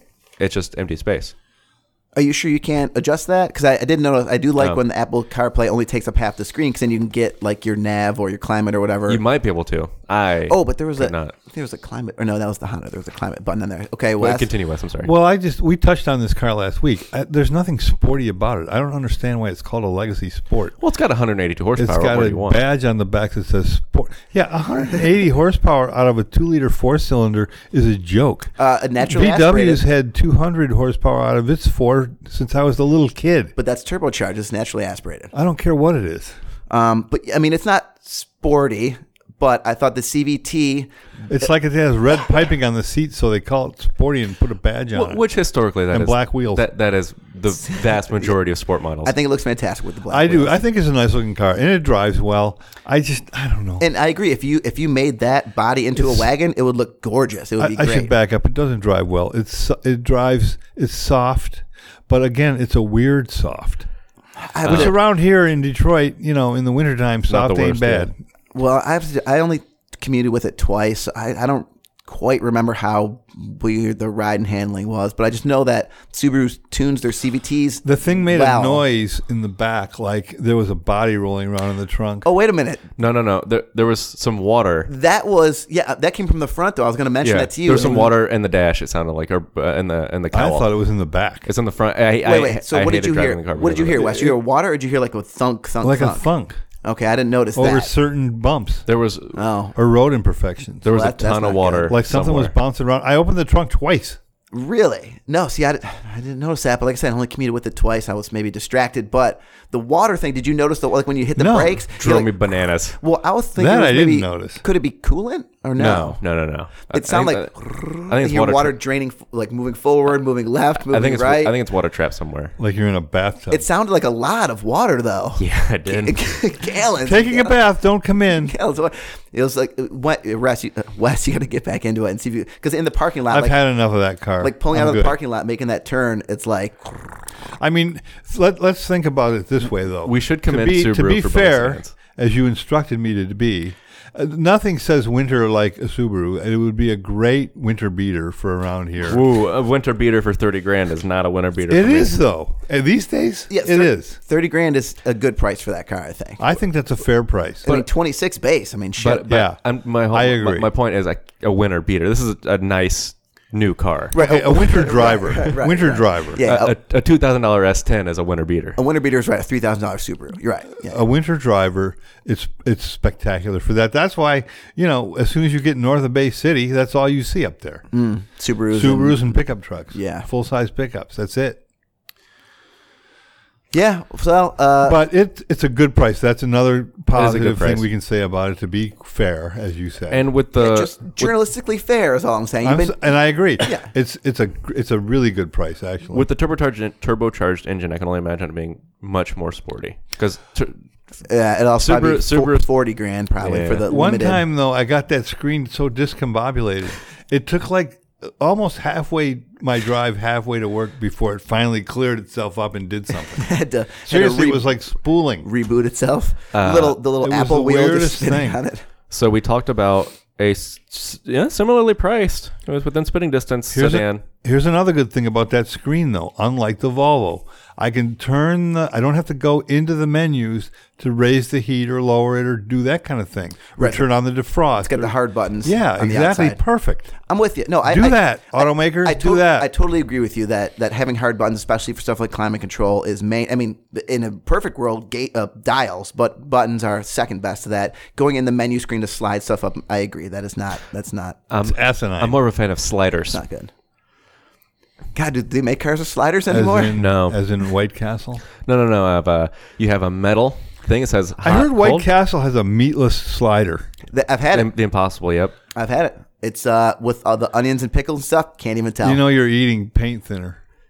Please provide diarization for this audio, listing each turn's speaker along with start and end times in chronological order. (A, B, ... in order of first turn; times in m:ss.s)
0:00.4-0:01.3 A
0:02.2-0:09.2 B
0:09.1-0:11.4 A
0:10.5-0:14.5 B
0:14.2-0:15.1 A
0:15.0-0:20.8 C
0:20.8-0:22.6 A
0:21.8-0:28.5 C
0:28.6-0:29.8 B
0:29.0-0:33.5 C
0:33.6-0:35.3 B
0:35.3-0:36.4 C
0:36.7-0:40.9 B
0:41.3-0:45.2 C
0:44.9-0:49.2 A
0:45.9-0:46.6 C
0:47.7-0:48.3 B
0:49.0-0:50.6 B
0:50.1-0:53.8 C
0:53.8-0:58.1 B
0:57.6-1:03.9 C
1:04.4-1:05.0 B
1:04.7-1:04.9 A
1:04.7-1:08.2 C
1:07.3-1:08.1 A
1:08.5-1:18.8 B
1:17.8-1:22.3 C
1:22.2-1:22.9 B
1:23.0-1:24.9 A
1:24.9-1:28.1 B
1:27.2-1:30.7 A
1:30.3-1:31.5 C
1:31.5-1:34.3 A
1:32.2-1:36.3 B
1:35.8-1:36.6 C
1:36.8-1:37.9 B
1:37.6-1:38.9 C
1:38.9-1:39.4 A
1:39.4-1:39.8 B
1:39.8-1:40.9 C
1:40.8-1:42.5 A
1:40.9-1:41.9 B
1:41.9-1:44.2 C
1:44.5-1:52.4 B
1:51.4-1:51.8 C
1:52.0-1:53.0 A
1:52.9-1:56.2 B
1:53.6-1:54.6 C
1:55.8-1:58.8 A
1:56.9-2:01.6 B
2:00.8-2:02.6 A
2:02.6-2:03.6 C
2:03.5-2:07.6 B
2:05.4-2:06.3 A
2:07.0-2:08.6 C
2:08.4-2:13.6 B
2:13.3-2:15.2 C
2:14.4-2:17.2 B
2:17.6-2:29.2 C
2:20.0-2:22.0 A
2:29.0-2:32.2 A
2:31.7-2:34.2 C
2:33.5-2:36.4 B
2:36.4-2:37.7 C
2:37.6-2:39.3 B
2:39.0-2:44.2 A
2:39.2-2:39.6 C
2:40.1-2:40.7 C
2:44.1-2:46.7 B
2:44.2-2:46.4 C
2:46.4-2:48.8 A
2:48.8-2:51.0 B
2:50.8-2:57.8 C
2:57.9-2:59.2 B
2:58.7-3:01.6 C
2:59.9-3:00.3 B
3:03.7-3:05.0 B
3:04.8-3:10.3 C
3:07.1-3:07.9 A
3:10.1-3:11.3 A
3:10.6-3:13.0 B
3:12.6-3:16.3 C
3:13.6-3:13.9 B
3:16.1-3:20.8 A
3:21.2-3:24.4 B
3:21.8-3:22.7 A
3:23.4-3:23.9 A
3:23.9-3:33.5 C
3:33.4-3:34.7 B
3:34.0-3:35.5 C
3:35.4-3:38.8 B
3:36.5-3:37.0 A
3:37.2-3:38.6 C
3:39.1-3:44.2 A
3:43.7-3:55.1 C
3:53.8-3:54.1 B
3:54.8-3:56.6 B
3:55.6-3:57.2 C
3:57.2-4:11.4 B
3:57.9-3:59.7 C
4:11.5-4:13.4 A
4:11.6-4:12.4 C
4:13.3-4:13.7 B
4:15.1-4:17.0 B
4:16.5-4:18.4 C
4:16.9-4:17.4 A
4:18.6-4:22.1 A
4:21.4-4:23.9 C
4:24.1-4:24.7 B
4:24.5-4:25.6 A
4:25.7-4:29.2 B
4:29.0-4:30.6 C